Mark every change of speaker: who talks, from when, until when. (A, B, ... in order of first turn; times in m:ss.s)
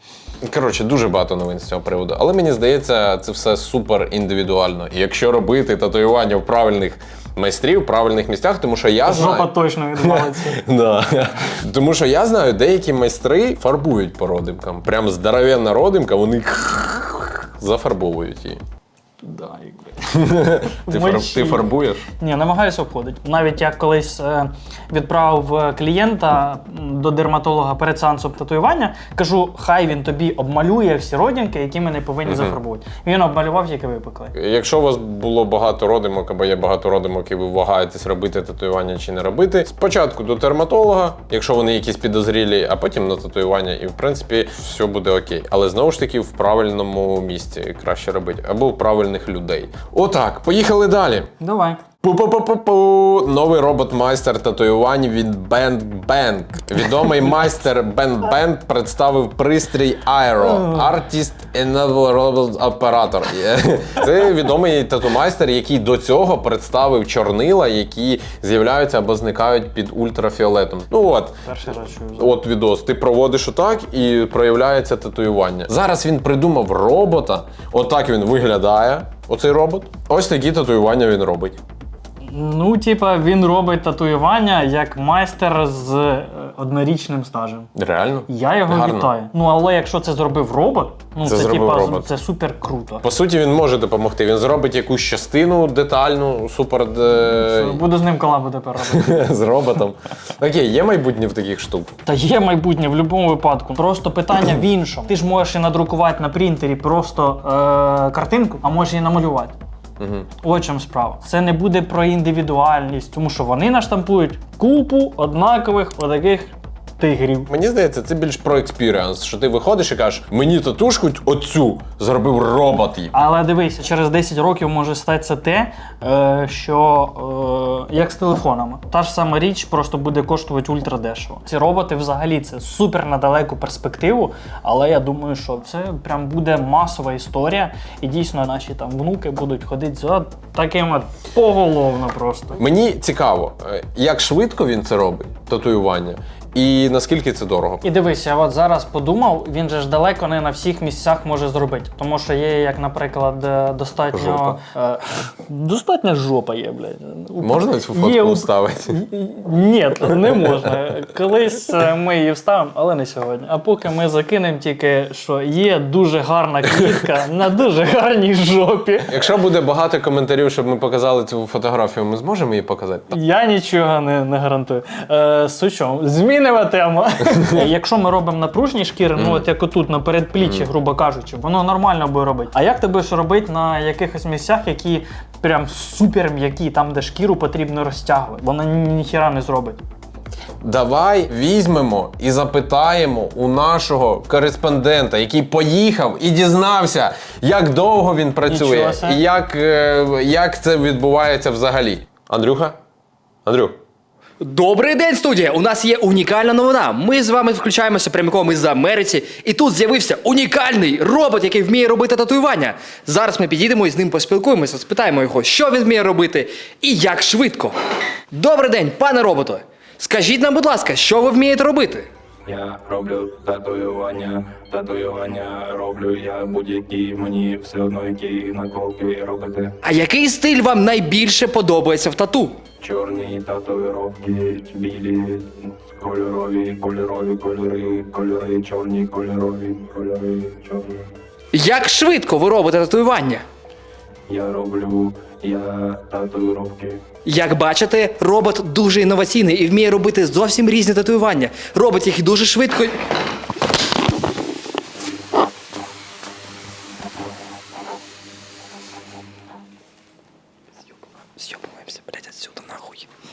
0:00.4-0:18.6 A
0:09.0-0:10.6 B
0:19.2-0:34.3 B
0:20.1-0:22.0 A
0:32.2-0:32.6 A
0:34.3-0:51.3 A
0:51.4-0:51.8 B
0:52.0-1:11.4 A
1:11.4-1:12.4 B
1:12.2-1:21.6 A
1:22.3-1:27.7 B
1:27.8-1:29.1 A
1:28.3-1:33.0 B
1:31.2-1:32.1 A
1:33.0-1:37.8 A
1:37.2-1:39.3 B
1:38.8-1:42.0 A
1:42.1-1:49.6 B
1:50.0-1:50.3 A
1:50.4-1:57.5 B
1:57.5-2:03.1 A
2:03.1-2:22.6 B
2:22.6-2:27.8 A
2:27.8-2:49.3 B
2:34.1-2:34.6 A
2:37.4-2:39.0 A
2:49.1-2:53.2 A
2:53.1-3:09.8 B
2:59.2-2:59.4 A
3:00.4-3:00.7 A
3:10.6-3:22.7 A
3:18.5-3:19.2 B
3:23.4-3:23.8 A
3:24.4-3:37.8 C
3:38.3-3:42.1 C
3:42.4-3:49.8 D
3:49.8-3:52.6 C
3:52.8-4:01.0 D
4:01.5-4:03.4 C
4:04.3-4:07.0 D
4:07.2-4:13.0 C
4:21.4-4:22.9 B
4:22.1-4:22.8 C